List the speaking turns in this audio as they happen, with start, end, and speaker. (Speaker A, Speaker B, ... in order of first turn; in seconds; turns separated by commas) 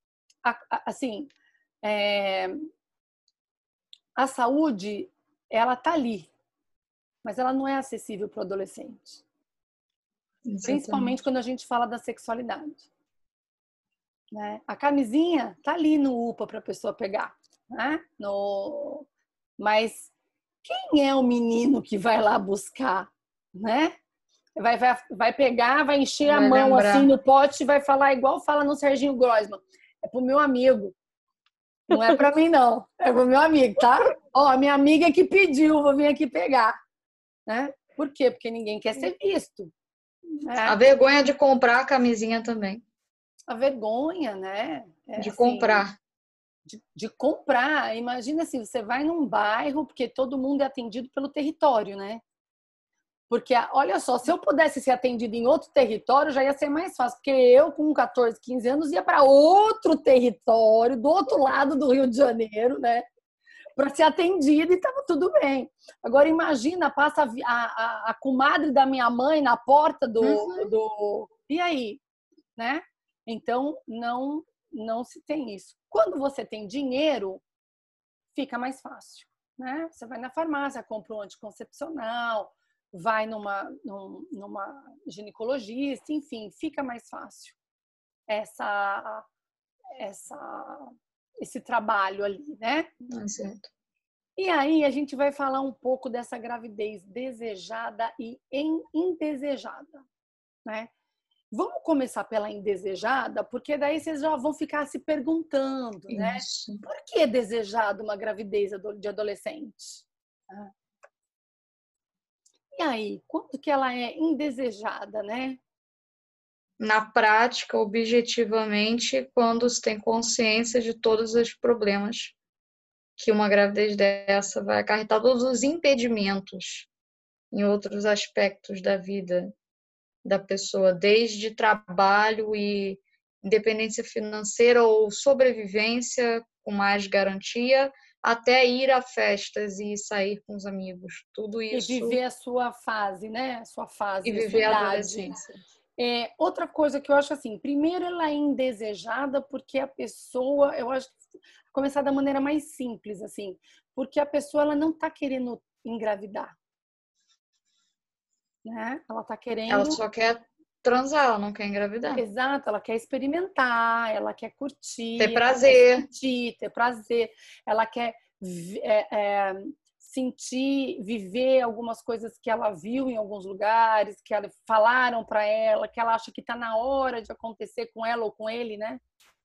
Speaker A: 0.4-1.3, Speaker A: 1.8-2.6, Speaker A: 4.2-6.3, Speaker A: 7.2-9.2, Speaker B: 10.5-11.2, Speaker A: 10.6-12.9, Speaker A: 14.3-19.1, Speaker A: 19.6-20.1, Speaker A: 20.6-24.0, Speaker A: 24.6-30.9, Speaker B: 26.3-27.1, Speaker A: 31.9-36.8, Speaker A: 37.5-39.7, Speaker A: 40.3-40.8, Speaker B: 40.6-42.8, Speaker A: 43.5-45.9, Speaker B: 45.2-46.0, Speaker A: 46.6-52.2, Speaker A: 53.3-63.1, Speaker A: 63.8-72.0, Speaker B: 70.2-70.7, Speaker A: 72.6-77.4, Speaker A: 78.3-87.6, Speaker A: 88.3-89.3, Speaker A: 89.9-93.0, Speaker B: 93.1-93.7, Speaker A: 94.4-100.1, Speaker A: 100.7-100.9, Speaker A: 101.5-110.7, Speaker B: 106.1-106.8, Speaker A: 112.7-115.6, Speaker B: 116.8-122.3, Speaker B: 123.2-126.9, Speaker B: 127.5-129.5, Speaker B: 130.2-142.2, Speaker A: 141.7-145.4, Speaker B: 144.2-145.6, Speaker A: 146.0-156.6, Speaker A: 158.7-160.0, Speaker B: 159.7-162.2, Speaker A: 162.1-179.0, Speaker B: 165.2-166.1